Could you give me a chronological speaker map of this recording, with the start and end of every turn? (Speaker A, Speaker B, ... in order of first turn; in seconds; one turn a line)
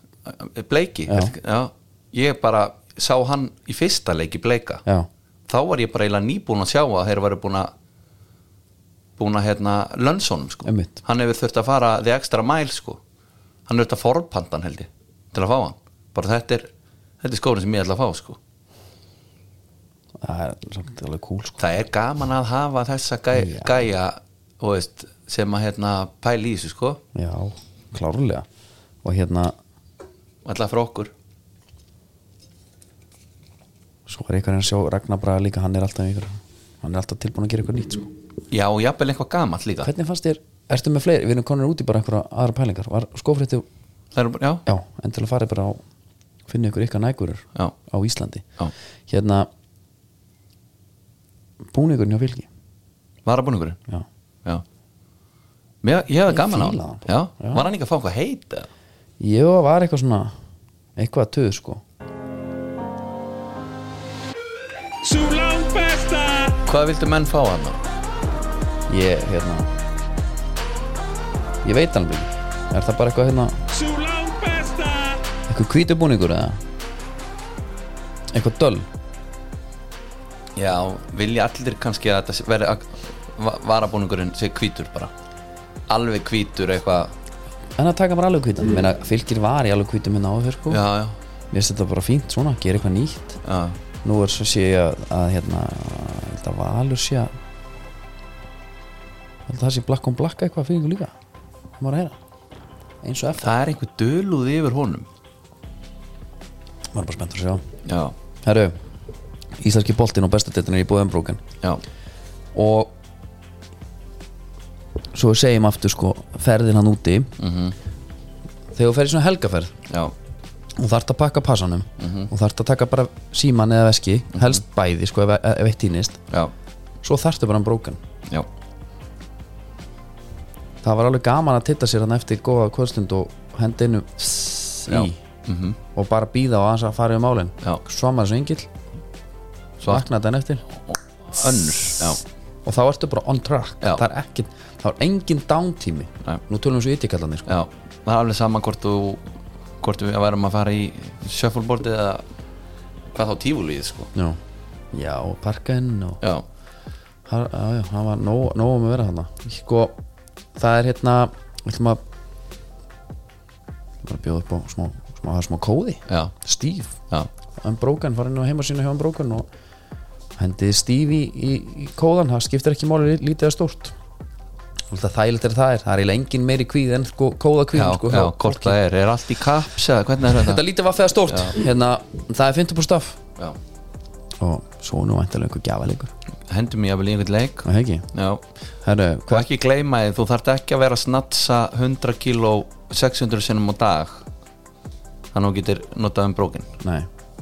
Speaker A: 0.3-4.8
Speaker B: 1.1-1.3
Speaker A: 5.5-7.7
Speaker A: 9.2-13.0
Speaker B: 10.7-11.0
Speaker A: 13.7-18.4
Speaker B: 20.2-21.6
Speaker A: 21.6-27.0
Speaker B: 23.3-23.9
Speaker B: 27.1-28.5
Speaker B: 29.0-29.6
Speaker A: 30.4-31.1
Speaker B: 34.1-38.1
Speaker A: 38.5-39.9
Speaker B: 39.8-43.7
Speaker A: 44.1-44.6
Speaker B: 44.7-45.8
Speaker B: 46.5-48.5
Speaker B: 49.1-49.5
Speaker B: 51.7-52.5
Speaker A: 53.3-53.8
Speaker A: 55.8-58.7
Speaker B: 56.3-57.7
Speaker B: 59.2-60.4
Speaker B: 61.0-61.8
Speaker C: 65.2-66.2
Speaker A: 66.5-67.8
Speaker B: 68.9-69.7
Speaker B: 71.6-73.7
Speaker C: 74.0-75.0
Speaker B: 75.5-76.6
Speaker B: 78.3-78.9
Speaker A: 80.6-85.1
Speaker A: 85.9-87.1
Speaker B: 87.8-90.8
Speaker A: 90.7-91.2
Speaker B: 91.5-93.4
Speaker A: 93.4-93.8
Speaker B: 94.0-97.3
Speaker B: 99.5-101.1
Speaker B: 101.8-102.2
Speaker B: 103.0-103.5
Speaker A: 103.4-105.1
Speaker B: 106.9-107.6
Speaker A: 107.8-108.2
Speaker B: 108.4-108.8
Speaker B: 109.6-111.4
Speaker B: 112.5-112.9
Speaker B: 115.1-117.3
Speaker A: 117.4-117.8
Speaker B: 118.7-119.7
Speaker A: 119.9-120.1
Speaker B: 120.8-126.2
Speaker A: 122.0-122.3
Speaker A: 124.3-124.6
Speaker B: 127.0-128.0
Speaker B: 130.8-135.2
Speaker A: 134.9-135.8
Speaker B: 135.9-138.7
Speaker A: 139.8-140.1
Speaker B: 139.8-140.6
Speaker A: 140.9-142.2
Speaker B: 142.7-147.5
Speaker A: 147.5-149.2
Speaker A: 149.8-152.2
Speaker A: 153.1-154.1
Speaker B: 154.2-154.4
Speaker B: 154.9-156.2
Speaker B: 157.3-160.0
Speaker B: 160.6-162.0
Speaker B: 164.0-167.0
Speaker A: 166.1-166.3
Speaker B: 167.6-169.5
Speaker B: 170.4-173.9
Speaker B: 174.9-178.8
Speaker A: 177.7-180.6
Speaker B: 180.3-183.2
Speaker A: 181.3-181.6
Speaker B: 184.4-186.1
Speaker A: 186.5-188.4
Speaker B: 187.7-188.1
Speaker B: 188.8-189.5
Speaker A: 189.3-194.2
Speaker A: 195.3-196.7
Speaker B: 196.8-197.1